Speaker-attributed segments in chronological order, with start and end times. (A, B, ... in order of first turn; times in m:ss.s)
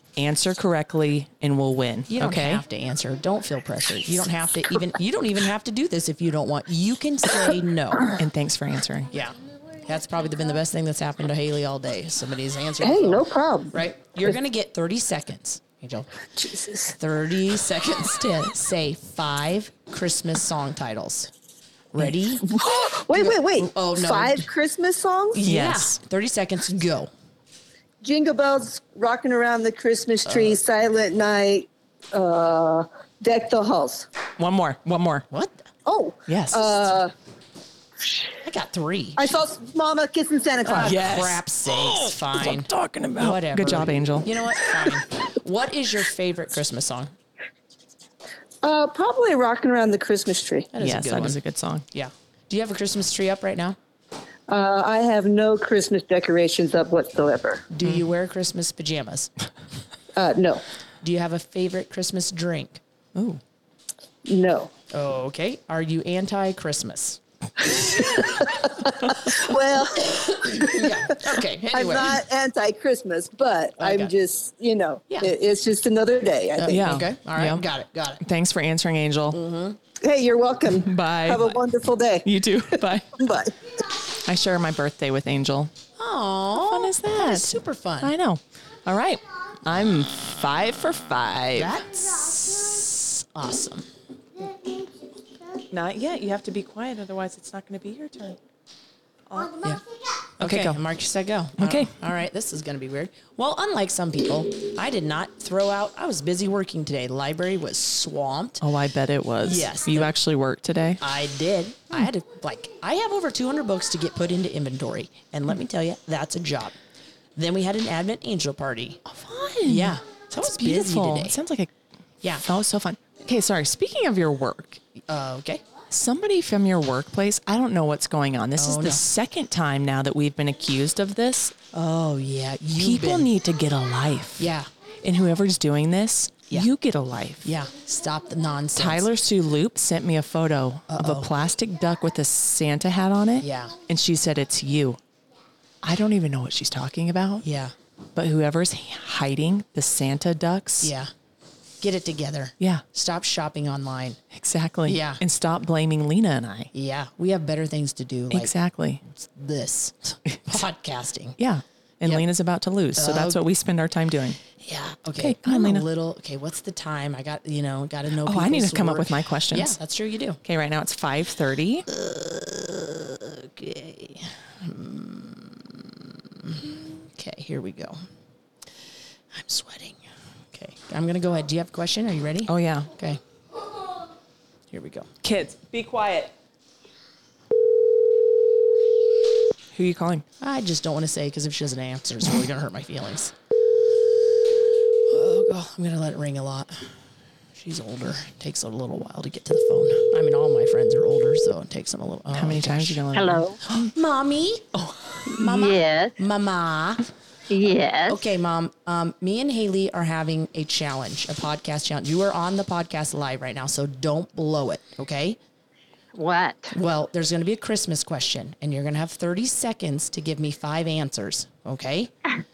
0:00.2-0:02.6 A
0:02.1-0:08.2 B
0:08.1-0:09.1 A
0:09.1-0:16.2 B
0:12.8-0:13.8 C
0:16.4-0:16.9 C
0:16.9-0:21.3 B
0:21.9-0:22.5 B
0:22.9-0:25.4 C
0:23.1-0:24.5 B
0:25.3-0:27.1 B
0:25.4-0:26.0 A
0:28.0-0:34.1 C
0:30.2-0:30.6 B
0:34.4-0:35.2 A
0:35.3-0:35.7 B
0:35.8-0:37.1 C
0:36.3-0:37.0 A
0:38.4-0:39.4 B
0:39.2-0:41.0 C
0:40.6-0:44.6 A
0:40.6-0:47.1 B
0:48.6-0:50.7 C
0:50.7-0:51.4 B
0:50.8-0:51.8 A
0:51.9-0:53.8 B
0:54.5-0:57.7 C
0:57.7-0:59.3 B
1:00.1-1:00.6 C
1:01.0-1:02.8 B
1:03.1-1:03.4 A
1:04.2-1:04.7 C
1:04.9-1:07.2 B
1:07.6-1:16.9 C
1:10.4-1:12.2 B
1:13.8-1:14.1 B
1:15.1-1:15.3 B
1:16.6-1:18.2 B
1:16.7-1:17.6 A
1:18.2-1:19.4 A
1:19.3-1:19.8 B
1:20.0-1:22.3 C
1:20.7-1:21.7 A
1:22.2-1:23.1 A
1:23.1-1:23.5 C
1:24.2-1:25.7 A
1:26.0-1:28.1 B
1:26.6-1:31.8 A
1:31.5-1:33.9 B
1:35.7-1:38.4 A
1:39.3-1:39.6 A
1:40.4-1:48.6 B
1:40.4-1:40.8 A
1:41.6-1:41.9 A
1:48.6-1:51.0 A
1:49.4-1:50.1 B
1:51.0-1:56.8 B
1:57.4-1:59.0 B
1:59.0-2:01.7 A
1:59.6-2:01.4 B
2:02.4-2:04.8 A
2:05.0-2:05.6 B
2:05.9-2:11.6 A
2:08.6-2:09.0 B
2:11.7-2:13.3 B
2:12.8-2:17.5 A
2:14.4-2:14.7 B
2:17.4-2:19.1 B
2:18.8-2:25.0 A
2:20.9-2:21.3 B
2:23.4-2:23.8 B
2:25.8-2:27.4 A
2:27.4-2:27.7 B
2:28.1-2:30.9 A
2:30.8-2:31.1 B
2:31.8-2:34.2 B
2:34.3-2:36.7 A
2:34.8-2:35.2 B
2:36.7-2:38.5 B
2:38.3-2:39.0 A
2:39.1-2:41.4 B
2:40.3-2:40.6 A
2:41.4-2:44.4 A
2:42.9-2:43.4 B
2:44.5-2:50.4 B
2:45.2-2:45.9 A
2:48.2-2:49.7 A
2:50.4-2:51.9 A
2:51.9-2:58.0 B
2:59.3-3:00.0 B
3:00.5-3:03.2 B
3:02.4-3:02.9 A
3:04.7-3:05.1 B
3:05.2-3:06.3 A
3:09.7-3:10.2 A
3:10.4-3:13.3 B
3:15.1-3:16.9 B
3:17.5-3:23.0 B
3:22.3-3:23.8 A
3:23.2-3:23.5 D
3:23.8-3:24.7 B
3:25.2-3:26.2 D
3:25.3-3:27.1 B
3:27.5-3:28.2 D
3:28.1-3:35.4 B
3:36.1-3:36.7 D
3:36.7-3:42.1 B